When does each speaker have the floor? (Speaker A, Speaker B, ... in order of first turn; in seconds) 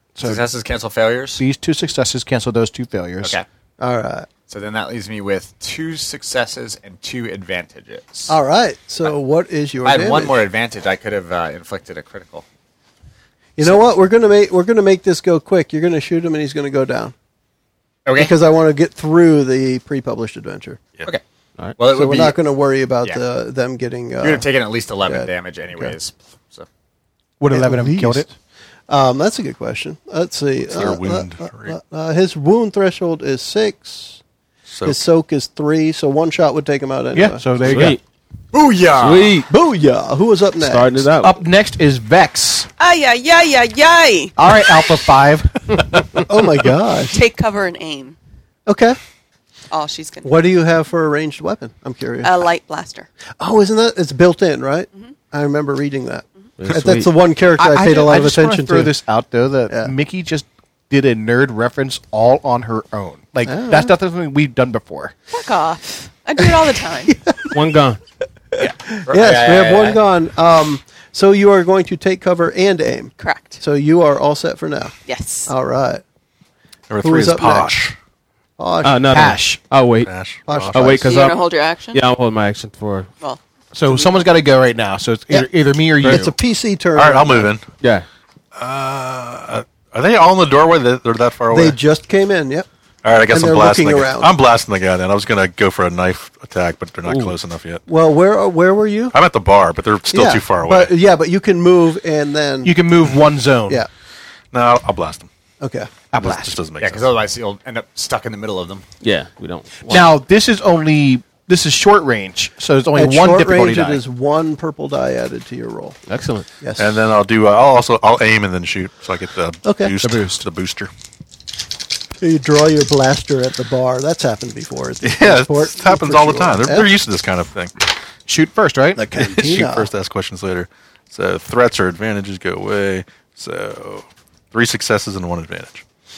Speaker A: 0.2-0.4, 1.4-3.4, 27.4-28.3, 37.1-38.0, 41.2-42.7, 44.4-46.3, 57.6-65.2, 79.1-79.6, 83.7-86.3, 102.6-103.8, 106.1-106.6, 109.9-114.0, 120.0-120.4, 128.3-129.1
Speaker B: 0.2-1.4, 4.5-8.3, 9.8-12.4, 18.1-18.3, 21.8-22.4, 24.2-26.6, 38.5-39.4, 69.1-70.0, 106.8-108.8
Speaker C: 3.8-4.3, 8.3-10.4, 13.6-17.1, 18.1-20.8, 21.8-24.5, 25.0-25.9, 27.5-28.3, 28.9-34.2, 34.8-37.4, 39.5-41.0, 46.2-47.2, 48.7-49.0, 50.2-52.5, 53.4-58.9, 63.5-63.9, 67.1-67.5, 68.5-74.9, 75.5-76.0, 77.0-77.7, 78.6-79.2, 80.5-81.1, 86.0-87.5, 91.5-92.7, 93.3-94.3, 97.9-99.2, 100.1-102.7, 105.6-105.9, 112.9-116.0, 116.6-116.9, 119.6-119.9, 122.2-126.9, 128.9-129.9
Speaker D: 30.6-31.8, 34.7-35.0, 76.9-78.0, 80.0-81.0, 86.9-87.7, 88.5-91.8, 93.0-97.8, 99.1-100.9, 104.5-105.3, 106.2-107.1, 116.8-120.9, 125.0-127.7, 129.2-135.8
Speaker E: 37.6-38.0, 39.0-39.5, 40.6-41.4, 56.6-57.1, 67.5-68.0, 78.8-80.1, 80.7-83.1, 86.0-86.3, 87.8-88.0, 97.0-97.3, 109.0-110.1, 116.1-116.5
Speaker F: 42.8-44.4, 47.1-48.1, 49.7-50.3, 52.2-53.1, 65.3-67.2, 73.2-73.6, 75.0-75.5, 81.0-82.0